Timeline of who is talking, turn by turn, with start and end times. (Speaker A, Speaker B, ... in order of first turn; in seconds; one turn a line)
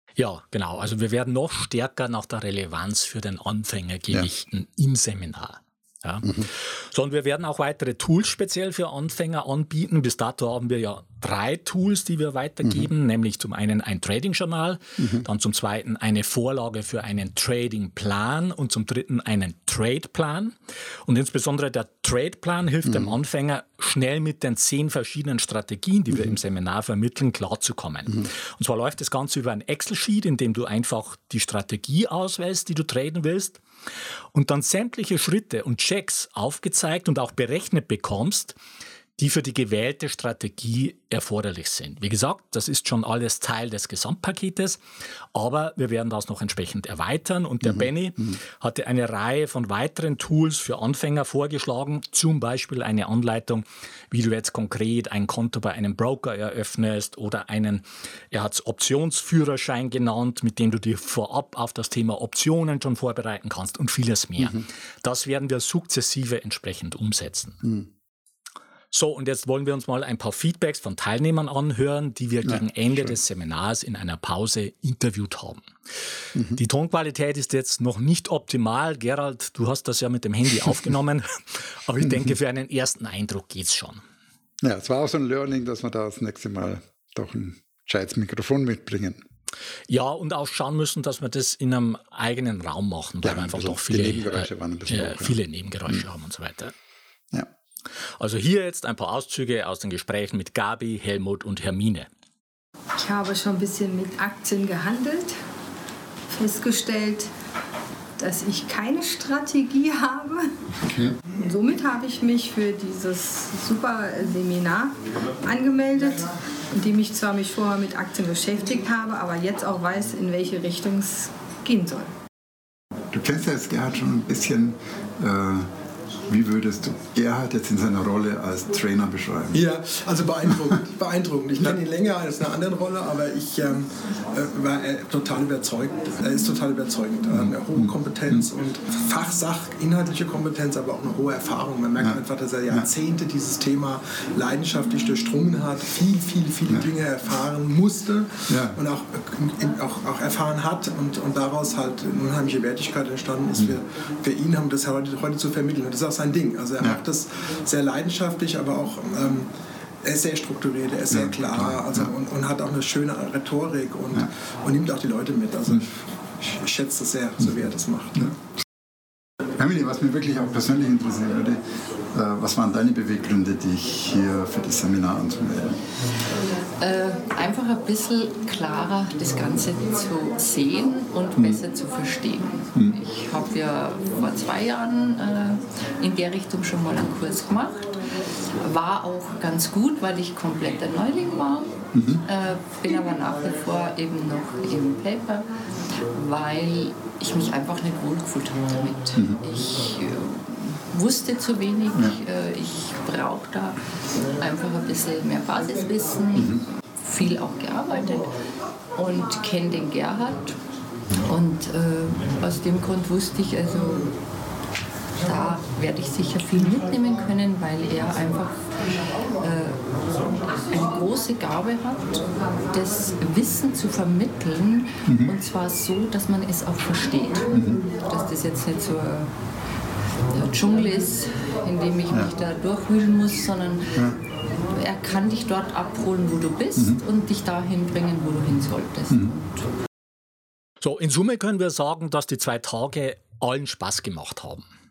Speaker A: 0.2-20.6
Speaker B: 6.2-6.5
Speaker B: 15.0-15.3
Speaker A: 21.1-33.6
Speaker B: 22.9-23.1
Speaker A: 34.3-38.6
Speaker A: 39.2-44.8
Speaker A: 45.3-67.6
Speaker B: 47.6-48.3
Speaker B: 64.4-64.6
Speaker A: 68.9-75.7
Speaker B: 72.5-73.1
Speaker B: 76.3-76.6
Speaker A: 76.6-84.0
Speaker B: 82.0-82.3
Speaker B: 84.6-89.2
Speaker A: 89.9-96.7
Speaker B: 93.2-96.0
Speaker A: 98.2-102.1
Speaker C: 103.0-105.3
Speaker C: 106.3-107.3
Speaker C: 108.2-110.5
Speaker B: 110.9-111.1
Speaker C: 111.4-122.1
Speaker B: 123.1-125.7
Speaker B: 126.3-129.6
Speaker D: 129.5-159.5
Speaker B: 137.3-138.5
Speaker B: 142.0-142.9
Speaker B: 148.5-148.8
Speaker D: 160.0-168.3
Speaker B: 161.1-162.1
Speaker B: 169.6-171.6
Speaker B: 172.1-175.8
Speaker E: 176.8-187.9
Speaker B: 181.4-181.6
Speaker E: 188.6-195.5
Speaker B: 191.9-192.2
Speaker E: 196.1-203.8
Speaker E: 204.4-208.3
Speaker B: 206.3-206.6
Speaker E: 209.0-210.6
Speaker E: 211.2-214.1
Speaker E: 215.2-218.6
Speaker E: 219.4-219.8
Speaker E: 220.7-229.3
Speaker B: 225.1-225.4
Speaker B: 227.5-227.8
Speaker E: 230.3-234.1
Speaker E: 234.7-239.5
Speaker B: 239.1-239.3
Speaker A: 240.8-244.7